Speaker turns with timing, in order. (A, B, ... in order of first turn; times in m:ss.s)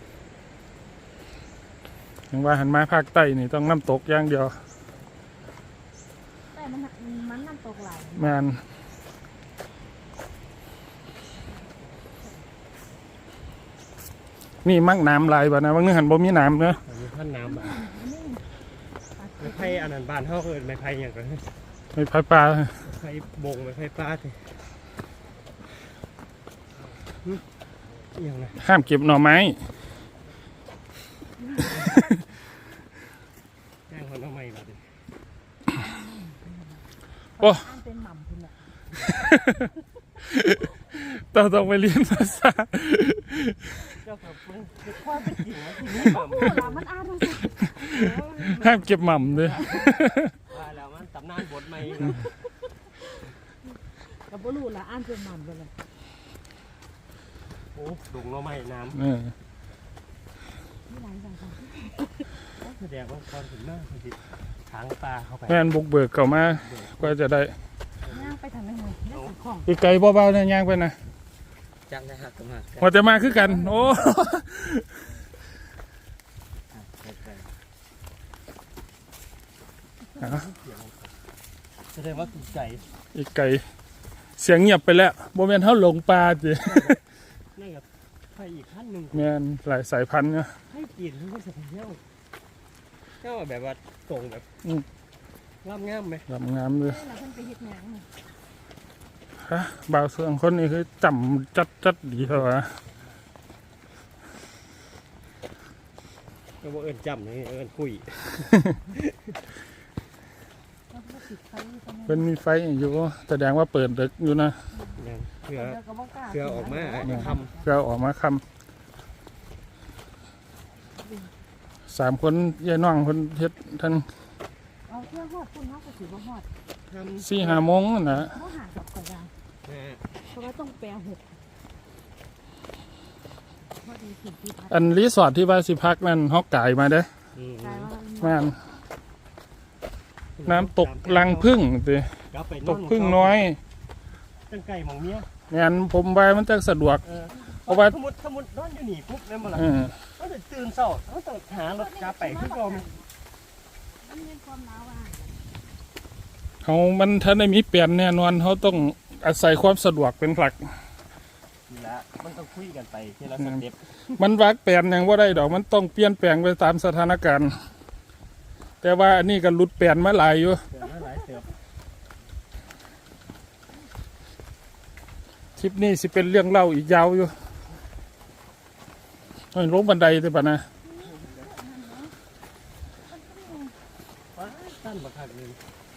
0:02.3-0:04.5 A
0:06.5-0:08.4 B
0:08.2-0:08.6 A
0:14.6-0:16.8 A
0:16.8-0:17.9 C
0:17.4-0:18.4 B
0:19.2-0:19.9 B
0:19.4-0:21.5 C
0:21.9-0:22.8 A
0:22.8-0:24.4 C
0:27.0-0:27.4 C
0:28.1-0:28.6 C
0:28.6-0:29.6 A
0:31.5-0:31.9 B
0:33.9-0:34.8 C
0:35.9-0:36.4 B
0:37.4-0:38.6 B
0:37.4-0:37.6 A
0:39.0-0:39.6 A
0:40.3-0:43.6 A
0:43.8-0:46.9 C
0:45.9-0:48.1 B
0:47.4-0:50.3 A
0:47.9-0:48.9 C
0:49.4-0:49.9 B
0:49.5-0:49.8 C
0:50.4-0:52.2 C
0:54.3-0:55.7 B
0:57.7-0:59.0 C
0:58.9-0:59.3 A
1:00.9-1:02.3 B
1:02.6-1:05.6 C
1:05.5-1:07.5 A
1:06.6-1:07.1 C
1:08.1-1:09.7 B
1:09.6-1:11.0 A
1:11.9-1:13.0 C
1:12.8-1:14.9 A
1:16.7-1:17.5 C
1:20.2-1:21.1 C
1:21.9-1:22.9 C
1:23.1-1:23.6 A
1:24.4-1:27.0 A
1:26.6-1:27.0 C
1:27.5-1:29.3 C
1:29.1-1:30.5 A
1:30.7-1:32.0 C
1:33.2-1:34.5 C
1:35.6-1:36.3 C
1:36.3-1:37.0 A
1:36.8-1:38.1 B
1:39.5-1:42.7 A
1:46.6-1:49.0 C
1:48.5-1:48.7 A
1:50.9-1:52.3 B
1:52.1-1:54.6 A
1:55.0-1:57.5 C
1:55.5-1:57.6 B
1:57.0-1:58.4 A
2:01.9-2:04.1 A
2:04.9-2:06.5 B
2:06.9-2:07.8 C
2:07.2-2:08.3 A
2:08.1-2:09.3 B
2:09.6-2:10.0 C
2:10.2-2:11.2 B
2:13.8-2:14.9 B
2:14.7-2:17.1 A
2:17.3-2:17.9 C
2:17.6-2:18.5 B
2:18.2-2:18.6 A
2:20.4-2:21.5 C
2:20.4-2:22.1 A
2:22.3-2:23.5 C
2:22.6-2:23.6 A
2:24.5-2:25.3 C
2:25.5-2:27.0 A
2:27.0-2:32.9 C
2:27.7-2:27.9 A
2:29.6-2:29.9 A
2:31.6-2:33.0 B
2:34.0-2:35.3 B
2:36.6-2:40.7 A
2:41.7-2:43.8 C
2:44.2-2:47.5 A
2:48.8-2:50.6 A
2:50.7-2:51.5 C
2:55.6-2:57.3 A
2:59.5-3:00.6 A
3:00.8-3:02.1 B
3:01.0-3:01.5 C
3:03.1-3:03.7 B
3:04.3-3:05.6 C